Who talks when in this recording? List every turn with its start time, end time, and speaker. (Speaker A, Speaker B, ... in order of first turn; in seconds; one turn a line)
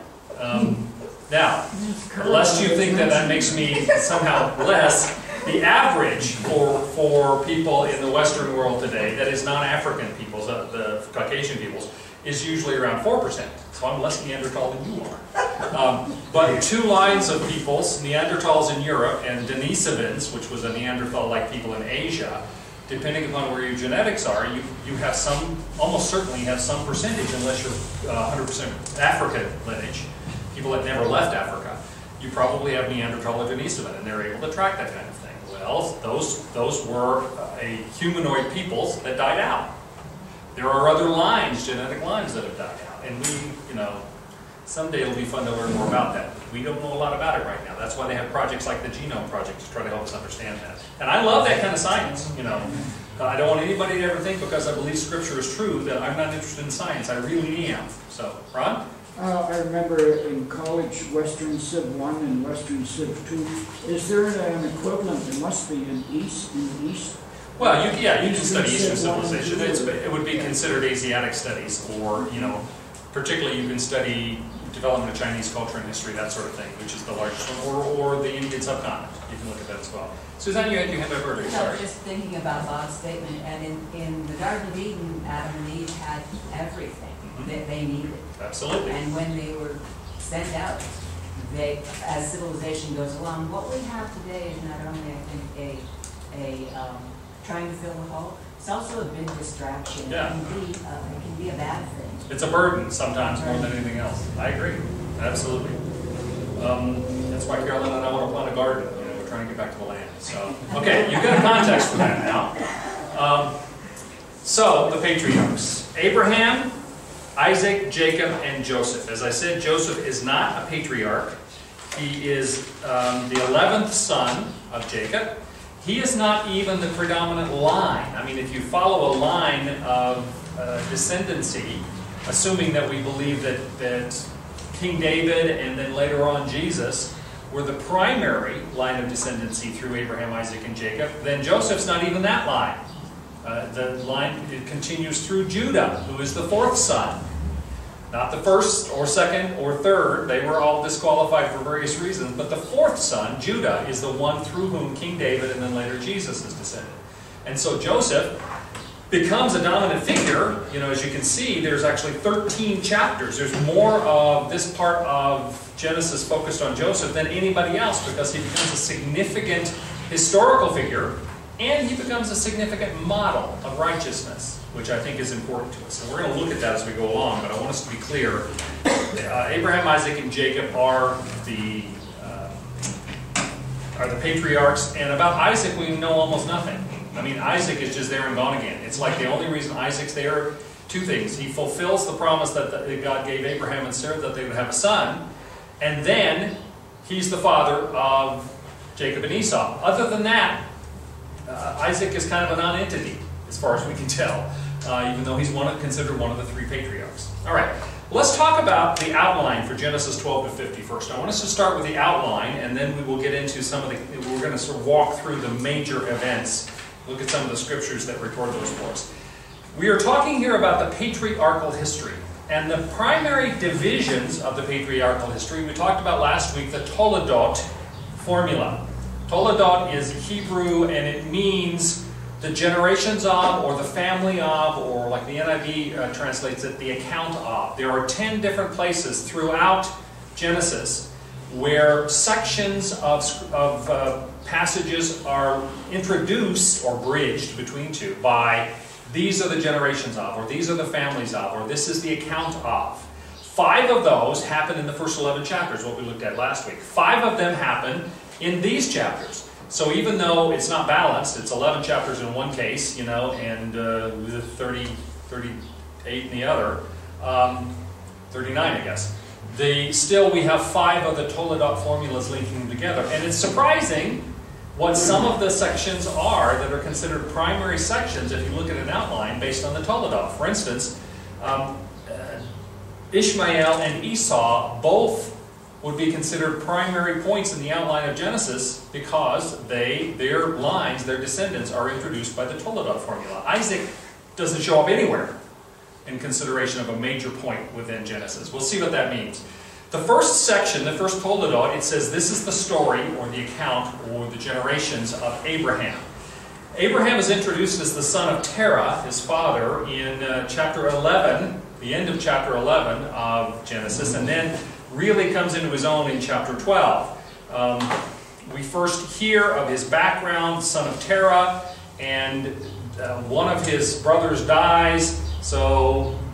Speaker A: 0.3-39.7
Speaker B: 1.7-3.7
Speaker A: 40.5-44.0
Speaker A: 44.6-58.8
Speaker B: 52.6-52.9
Speaker B: 59.1-70.5
Speaker A: 67.6-81.8
Speaker C: 81.4-88.3
Speaker A: 87.2-87.5
Speaker A: 88.3-89.0
Speaker C: 88.8-102.3
Speaker A: 100.1-100.4
Speaker A: 102.3-105.8
Speaker C: 103.4-103.8
Speaker A: 106.5-113.5
Speaker C: 110.7-111.3
Speaker A: 114.4-116.7
Speaker A: 117.3-121.4
Speaker A: 121.9-142.8
Speaker A: 143.4-147.2
Speaker A: 148.1-158.3
Speaker A: 159.1-178.4
Speaker A: 179.1-182.6
Speaker A: 183.9-195.2
Speaker A: 195.8-200.6
Speaker A: 201.4-219.1
Speaker A: 219.7-267.7
Speaker A: 268.3-282.4
Speaker A: 283.1-295.3
Speaker A: 296.0-306.0
Speaker A: 306.7-326.2